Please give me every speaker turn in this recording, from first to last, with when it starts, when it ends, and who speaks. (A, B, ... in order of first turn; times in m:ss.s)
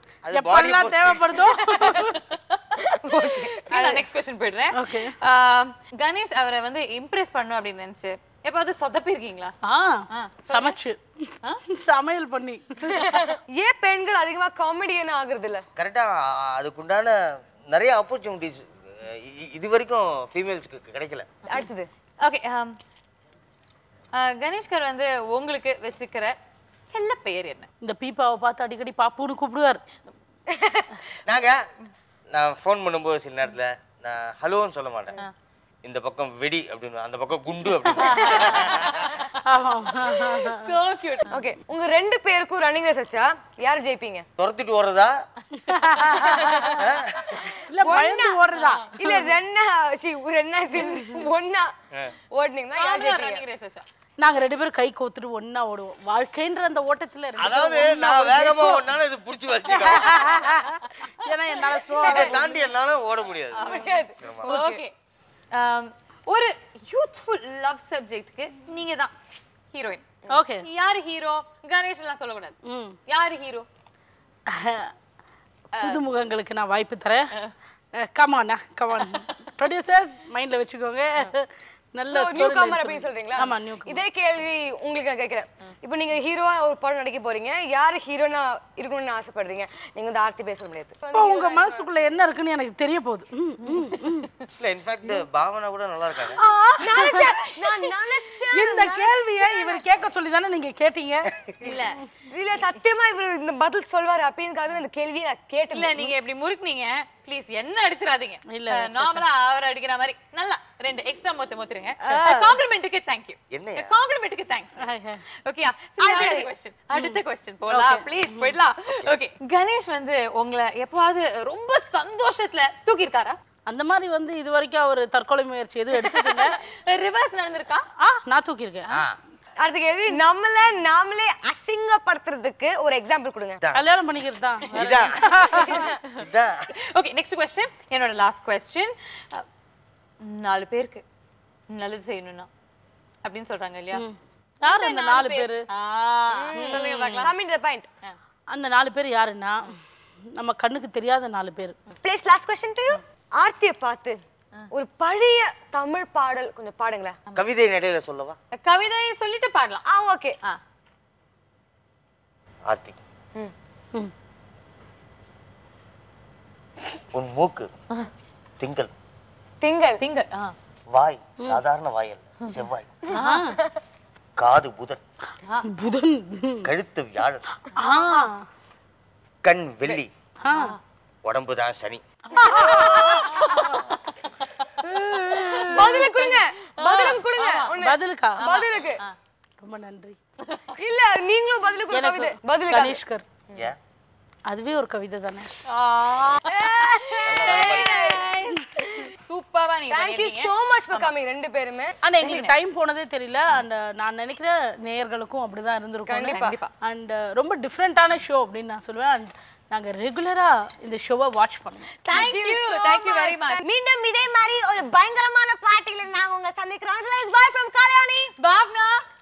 0:00.2-0:01.4 A
0:00.3-0:02.2 B
0:01.9-0:09.5 C
0:02.9-0:04.0 D
0:04.7-0:05.1 B
0:09.6-0:13.3 B
0:10.1-0:10.8 C
0:12.9-0:15.6 D
0:15.8-0:17.2 A
0:17.7-0:21.3 A
0:21.5-0:21.9 D
0:22.2-0:22.7 C
0:24.2-0:26.3 C
0:26.9-0:27.7 C
0:27.8-0:29.8 B
0:30.5-0:30.9 D
0:31.2-0:31.6 A
0:32.3-0:35.2 A
0:35.8-0:39.0 A
0:38.0-0:38.4 B
0:38.0-0:39.3 C
0:39.4-0:40.7 B
0:40.2-0:41.3 C
0:41.3-0:44.2 D
0:44.4-0:45.1 A
0:45.6-0:46.9 B
0:46.0-0:46.3 C
0:46.0-0:46.8 D
0:46.8-0:47.4 A
0:47.4-0:48.4 D
0:47.6-0:49.3 B
0:48.9-0:51.7 D
0:52.3-0:53.4 D
0:52.8-0:53.8 C
0:54.2-0:58.9 B
0:57.4-1:00.4 A
0:59.7-1:02.6 B
1:02.0-1:02.4 D
1:02.0-1:03.7 A
1:03.5-1:04.9 C
1:03.6-1:04.8 D
1:04.2-1:04.5 A
1:05.5-1:09.1 C
1:09.7-1:10.0 C
1:10.3-1:10.7 B
1:10.6-1:12.5 C
1:12.6-1:13.0 B
1:13.1-1:13.6 C
1:14.5-1:14.9 B
1:15.7-1:16.0 D
1:15.8-1:17.3 B
1:18.0-1:24.0 B
1:18.9-1:19.2 C
1:22.1-1:31.9 D
1:31.1-1:34.3 B
1:33.6-1:34.0 C
1:34.6-1:36.4 A
1:36.3-1:37.6 B
1:36.8-1:39.8 D
1:38.5-1:41.3 B
1:41.6-1:42.0 C
1:42.3-1:46.1 D
1:45.7-1:54.9 C
1:48.5-1:49.2 B
1:52.0-1:52.5 D
1:53.5-1:53.9 A
1:54.8-1:55.2 B
1:55.4-2:03.4 C
1:56.0-1:56.5 D
1:56.9-1:58.5 B
2:03.7-2:06.6 B
2:06.0-2:07.8 C
2:08.0-2:08.9 B
2:08.9-2:09.2 A
2:09.6-2:13.6 D
2:13.7-2:15.9 B
2:14.7-2:16.7 A
2:15.6-2:15.9 D
2:16.9-2:19.4 C
2:20.2-2:21.0 C
2:21.7-2:22.5 C
2:23.2-2:24.0 C
2:23.9-2:25.6 B
2:24.6-2:27.3 C
2:26.3-2:27.9 D
2:26.5-2:27.3 B
2:28.5-2:29.8 B
2:30.3-2:31.7 B
2:32.0-2:34.2 D
2:34.7-2:37.2 D
2:37.3-2:38.4 A
2:38.5-2:39.8 C
2:39.8-2:40.4 D
2:42.7-2:43.0 A
2:47.1-2:47.7 A
2:48.6-2:48.9 A
2:49.6-2:50.0 D
2:50.0-2:50.5 C
2:50.9-2:52.9 A
2:53.1-2:53.4 C
2:53.1-2:53.6 B
2:54.4-2:55.0 A
2:55.6-2:56.7 B
2:56.6-2:57.4 A
2:57.7-2:58.4 B
2:57.8-2:58.3 C
2:59.4-3:00.1 A
3:00.0-3:00.8 C
3:00.4-3:00.8 B
3:01.2-3:02.0 A
3:02.3-3:04.1 C
3:02.3-3:03.4 D
3:02.4-3:03.9 B
3:04.8-3:06.2 B
3:05.7-3:09.0 D
3:06.8-3:07.7 C
3:07.7-3:08.4 B
3:08.4-3:09.2 C
3:09.6-3:10.2 B
3:10.4-3:10.7 C
3:10.7-3:13.0 D
3:11.9-3:13.2 B
3:14.5-3:15.5 B
3:15.6-3:21.1 C
3:16.4-3:18.3 D
3:17.2-3:18.0 A
3:19.9-3:21.9 D
3:22.0-3:31.8 B
3:22.2-3:22.5 C
3:26.1-3:26.6 D
3:26.3-3:26.7 C
3:32.0-3:33.6 C
3:32.1-3:38.3 D
3:38.4-3:39.0 C